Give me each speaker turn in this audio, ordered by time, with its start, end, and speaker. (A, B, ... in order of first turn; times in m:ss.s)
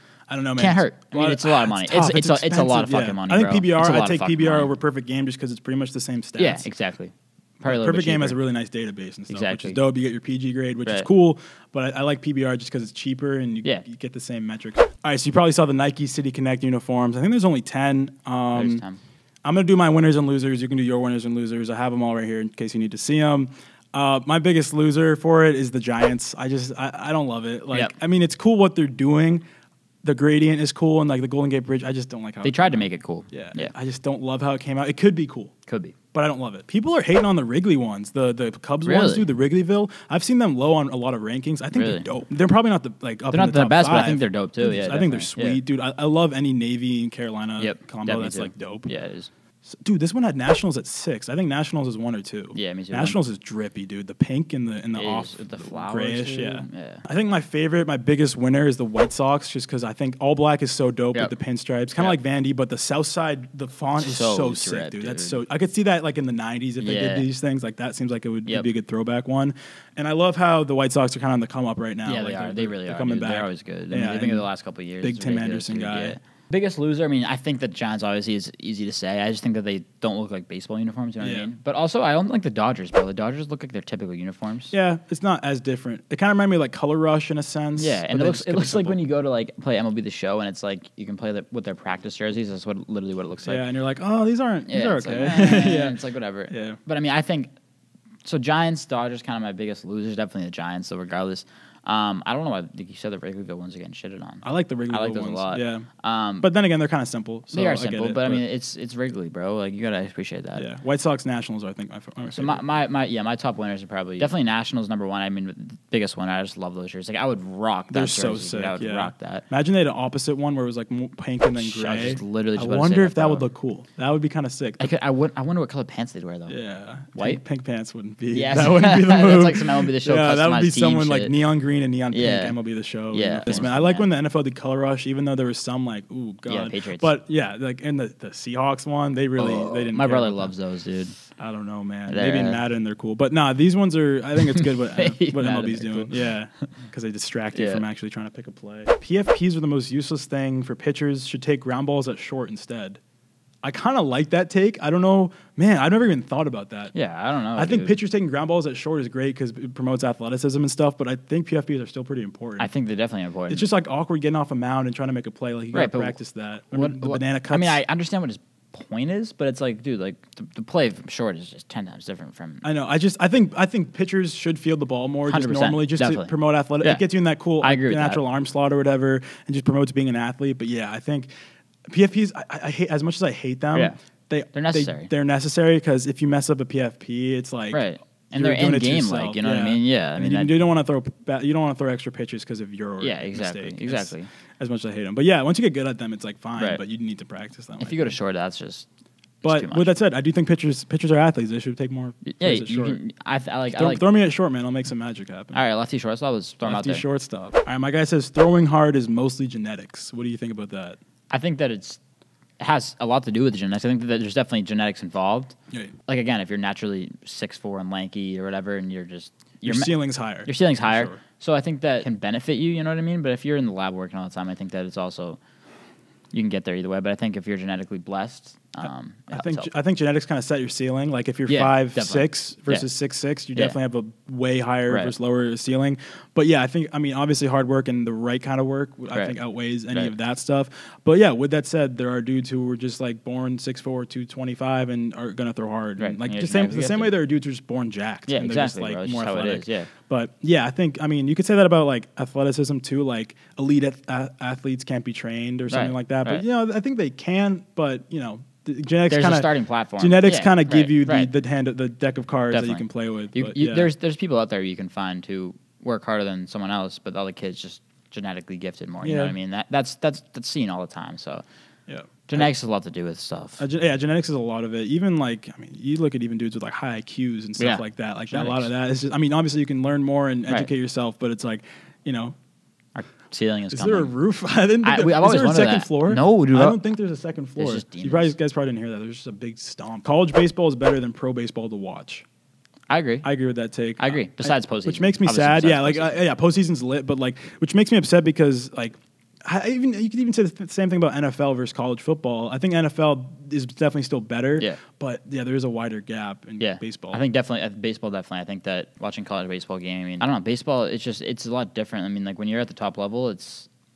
0:00.3-0:06.7 A
0:00.6-0:04.7 B
0:06.4-0:08.4 B
0:07.6-0:18.8 A
0:09.3-0:09.8 B
0:18.5-0:19.0 B
0:19.4-0:29.4 A
0:30.0-0:35.5 A
0:32.4-0:33.7 B
0:35.7-0:36.0 B
0:36.1-0:48.9 A
0:38.8-0:39.3 B
0:41.7-0:42.1 B
0:43.3-0:45.6 B
0:47.6-0:49.3 B
0:49.7-1:14.5 A
0:52.5-0:53.2 B
0:55.0-0:57.0 B
1:04.0-1:05.4 B
1:06.8-1:07.2 B
1:12.1-1:24.7 B
1:15.0-1:16.2 A
1:21.2-1:21.5 A
1:24.7-1:29.0 A
1:27.8-1:33.6 B
1:33.5-1:36.8 A
1:34.7-1:37.5 B
1:38.2-1:46.5 B
1:44.4-1:45.9 A
1:46.4-1:48.4 A
1:47.5-1:50.7 B
1:50.6-1:52.6 A
1:52.3-1:59.4 B
1:57.9-2:04.9 A
2:01.6-2:03.5 B
2:04.8-2:06.6 B
2:06.5-2:20.5 A
2:07.2-2:07.4 B
2:08.3-2:11.4 B
2:12.1-2:12.6 B
2:13.1-2:14.1 B
2:16.5-2:17.1 B
2:19.4-2:21.2 B
2:21.4-2:33.0 A
2:22.1-2:22.6 B
2:24.6-2:26.2 B
2:27.5-2:27.8 B
2:33.6-2:36.9 A
2:36.9-2:38.0 B
2:37.6-2:42.7 A
2:42.6-2:43.7 B
2:43.5-2:47.8 A
2:45.7-2:46.2 B
2:46.7-2:52.6 B
2:52.6-3:01.3 A
2:55.3-2:57.0 B
2:57.6-2:58.2 B
3:01.9-3:18.2 A
3:04.5-3:05.1 B
3:07.7-3:10.5 B
3:13.0-3:14.3 B
3:17.8-3:18.9 B
3:19.4-3:20.0 B
3:19.4-3:23.0 A
3:22.3-3:24.1 B
3:23.7-3:25.6 A
3:25.5-3:27.0 B
3:26.6-3:31.0 A
3:31.3-3:32.0 B
3:32.6-3:35.6 B
3:36.1-3:45.4 B
3:39.6-3:41.2 A
3:46.3-3:49.7 B
3:49.3-4:23.9 A
3:51.5-3:52.9 B
4:06.0-4:07.1 B
4:08.3-4:09.9 B
4:15.7-4:16.4 B
4:19.1-4:21.3 B
4:22.5-4:31.4 B
4:29.0-4:29.4 A
4:31.9-4:32.5 A
4:32.3-4:33.6 B
4:33.6-4:42.4 A
4:37.6-4:38.7 B
4:43.0-4:44.1 B
4:43.7-4:52.2 A
4:44.8-4:46.8 B
4:47.6-4:48.3 B
4:52.9-4:53.3 B
4:53.2-5:07.2 A
4:54.0-4:56.2 B
5:06.6-5:13.7 B